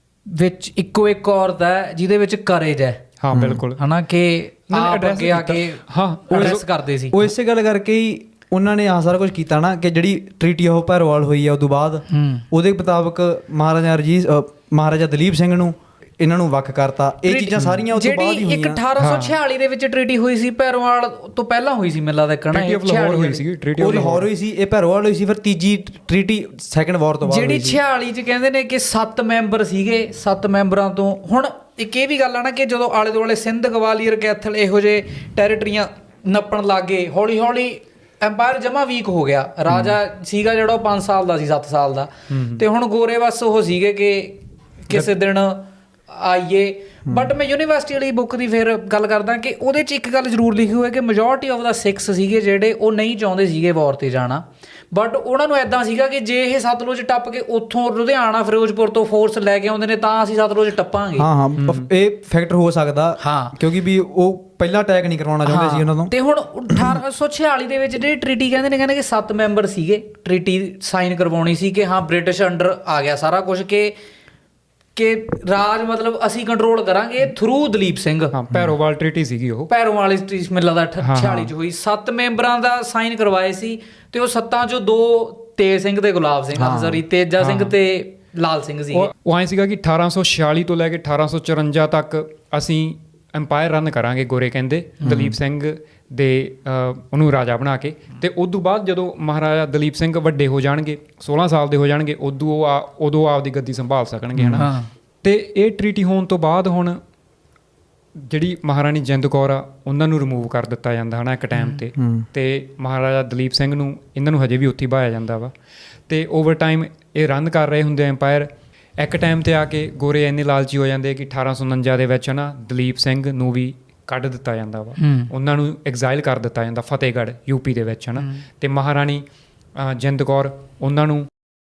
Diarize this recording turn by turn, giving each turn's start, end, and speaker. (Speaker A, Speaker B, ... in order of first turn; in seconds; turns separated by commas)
Speaker A: 0.3-3.0, Speaker B: 3.2-3.8, Speaker C: 3.3-3.6, Speaker A: 3.8-7.2, Speaker B: 4.7-6.6, Speaker C: 6.3-18.8, Speaker A: 12.1-12.4, Speaker A: 17.2-23.4, Speaker B: 17.6-17.8, Speaker B: 19.0-19.3, Speaker B: 22.5-24.3, Speaker C: 23.8-27.8, Speaker A: 27.2-61.3, Speaker B: 42.3-42.6, Speaker C: 61.2-66.1, Speaker A: 63.2-63.5, Speaker A: 65.5-73.9, Speaker C: 66.7-67.0, Speaker A: 75.0-78.3, Speaker B: 78.3-79.7, Speaker C: 78.5-78.7, Speaker A: 79.7-89.1, Speaker B: 81.0-81.5, Speaker C: 86.5-87.0, Speaker B: 87.4-87.8, Speaker B: 88.9-104.7, Speaker C: 95.0-95.4, Speaker C: 104.3-104.7, Speaker A: 104.5-104.9, Speaker B: 105.2-107.0, Speaker B: 108.2-115.5, Speaker C: 112.0-112.2, Speaker B: 116.1-129.2, Speaker A: 125.0-125.3, Speaker A: 128.2-128.4, Speaker B: 129.8-131.3